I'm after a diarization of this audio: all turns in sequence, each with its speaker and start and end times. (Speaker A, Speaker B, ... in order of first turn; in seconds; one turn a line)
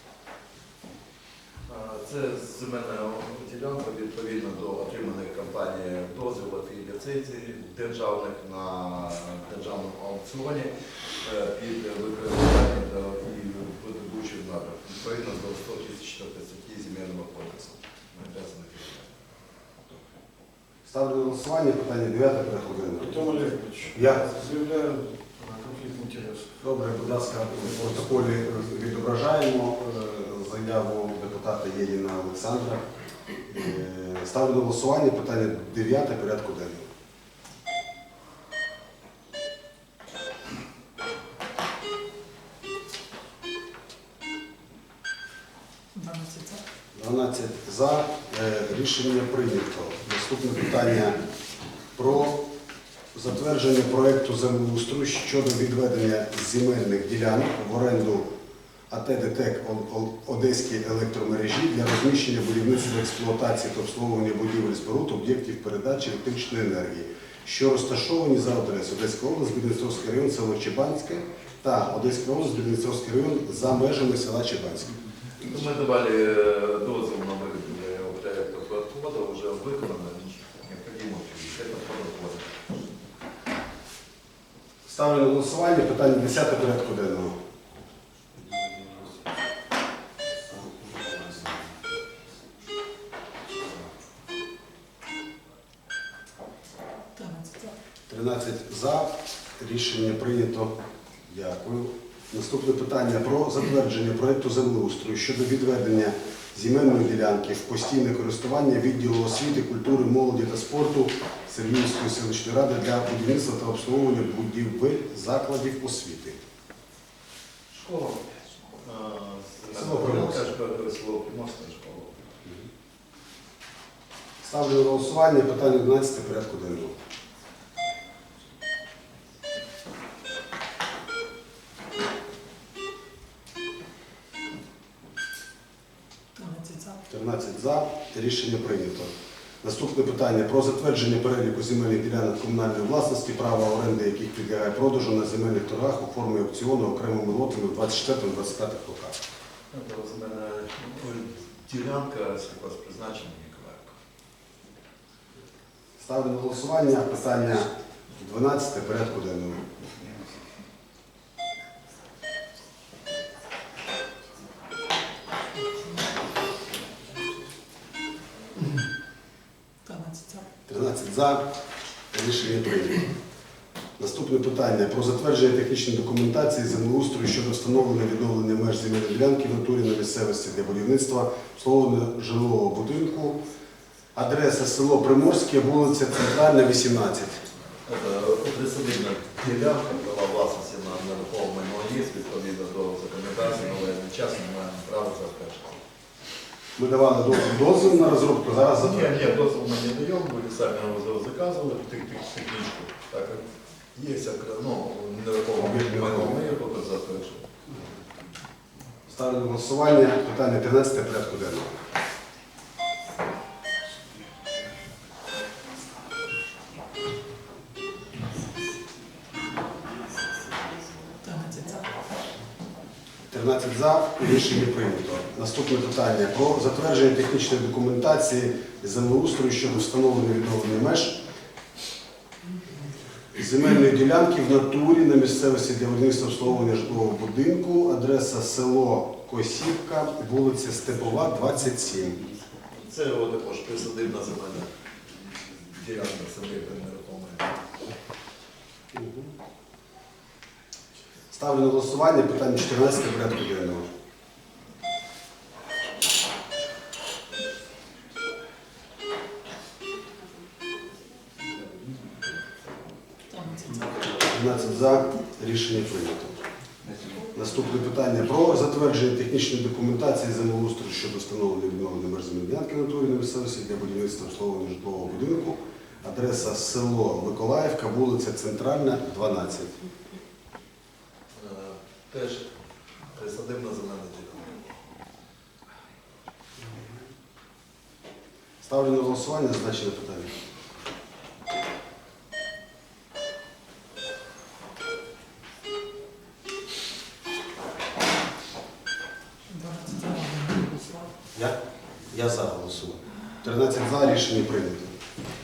Speaker A: 1.7-19.1
Speaker B: 20.9-23.3
Speaker C: 23.0-26.5
Speaker B: 23.9-24.3
Speaker B: 26.6-32.8
Speaker C: 27.6-28.3
Speaker B: 33.5-36.9
Speaker D: 45.9-46.6
Speaker B: 47.0-51.2
Speaker B: 52.0-52.4
Speaker B: 53.1-58.3
Speaker B: 58.9-75.0
Speaker A: 75.4-82.5
Speaker B: 84.9-87.4
Speaker A: 91.2-91.5
Speaker D: 97.1-97.8
Speaker B: 98.1-100.8
Speaker B: 101.3-116.4
Speaker A: 117.7-122.2
Speaker B: 119.7-120.5
Speaker B: 124.4-127.0
Speaker D: 136.3-137.0
Speaker B: 137.1-149.2
Speaker A: 149.7-153.9
Speaker B: 156.0-159.7
Speaker D: 169.8-170.5
Speaker B: 170.7-171.4
Speaker B: 172.1-173.1
Speaker B: 174.0-183.4
Speaker B: 184.2-187.4
Speaker A: 187.9-195.8
Speaker B: 196.8-199.1
Speaker A: 198.7-207.4
Speaker B: 205.6-206.4
Speaker B: 209.1-211.8
Speaker D: 221.2-221.9
Speaker B: 223.3-231.2
Speaker B: 233.3-242.2
Speaker A: 242.7-244.7
Speaker A: 245.7-247.6
Speaker B: 248.9-249.3
Speaker B: 251.3-253.9
Speaker D: 263.3-264.1
Speaker B: 264.3-266.4
Speaker B: 267.3-279.8
Speaker A: 281.3-282.5
Speaker A: 283.1-284.6
Speaker B: 288.6-290.3
Speaker D: 299.5-301.1
Speaker B: 302.1-304.9